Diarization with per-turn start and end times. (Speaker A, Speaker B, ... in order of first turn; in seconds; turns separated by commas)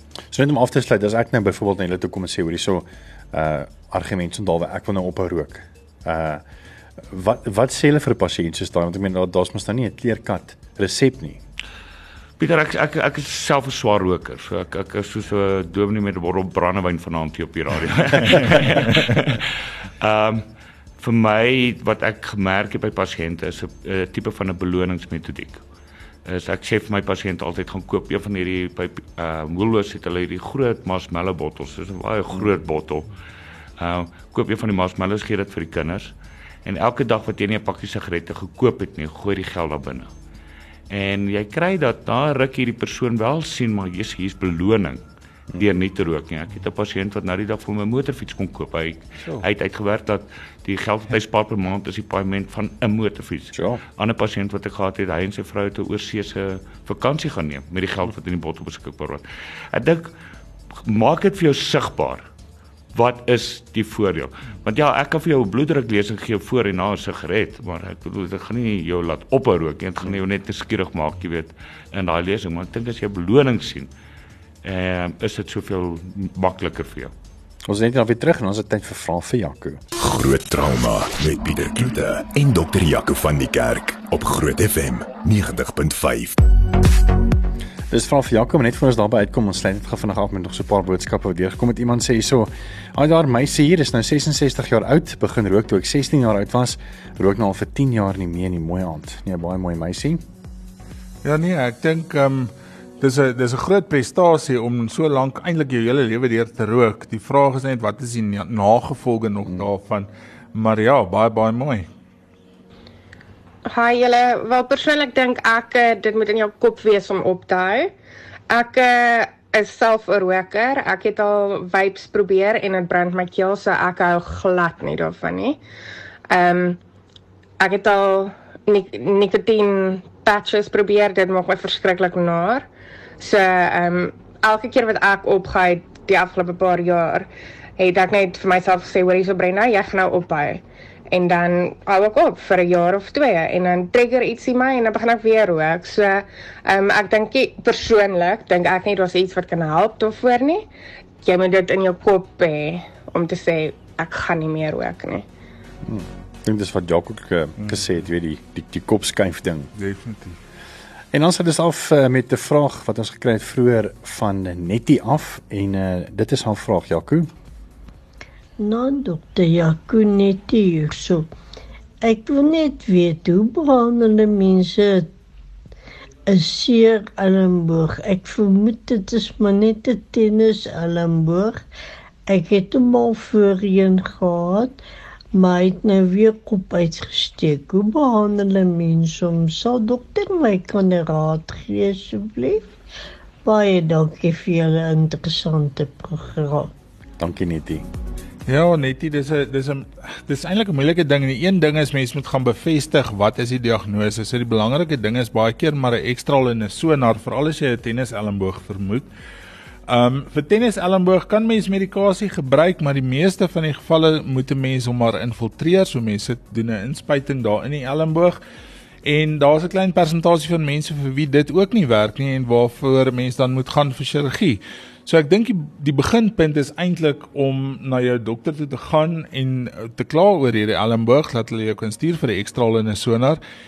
Speaker A: 0.3-6.4, Speaker A: 7.0-11.4, Speaker B: 12.4-20.5, Speaker B: 21.0-25.6, Speaker B: 26.2-33.1, Speaker B: 33.8-36.1, Speaker B: 36.6-40.1, Speaker B: 40.9-45.0, Speaker B: 45.6-60.1, Speaker A: 53.5-53.8, Speaker B: 60.8-62.2, Speaker B: 62.9-73.9, Speaker B: 74.6-77.1, Speaker A: 77.7-79.8, Speaker C: 79.9-86.4, Speaker A: 87.9-100.2, Speaker D: 101.2-111.9, Speaker E: 113.7-117.9, Speaker E: 118.5-125.6, Speaker E: 126.3-126.8, Speaker E: 127.6-132.7, Speaker E: 133.2-150.7, Speaker E: 151.2-155.2, Speaker A: 155.8-159.7, Speaker D: 159.8-160.4, Speaker A: 161.1-167.3, Speaker F: 168.6-171.3, Speaker F: 172.0-175.1, Speaker F: 176.3-181.6, Speaker F: 182.3-184.8, Speaker F: 185.3-192.7, Speaker F: 193.4-196.7, Speaker A: 197.2-197.8, Speaker D: 198.5-209.1, Speaker D: 209.9-218.4, Speaker D: 219.0-233.4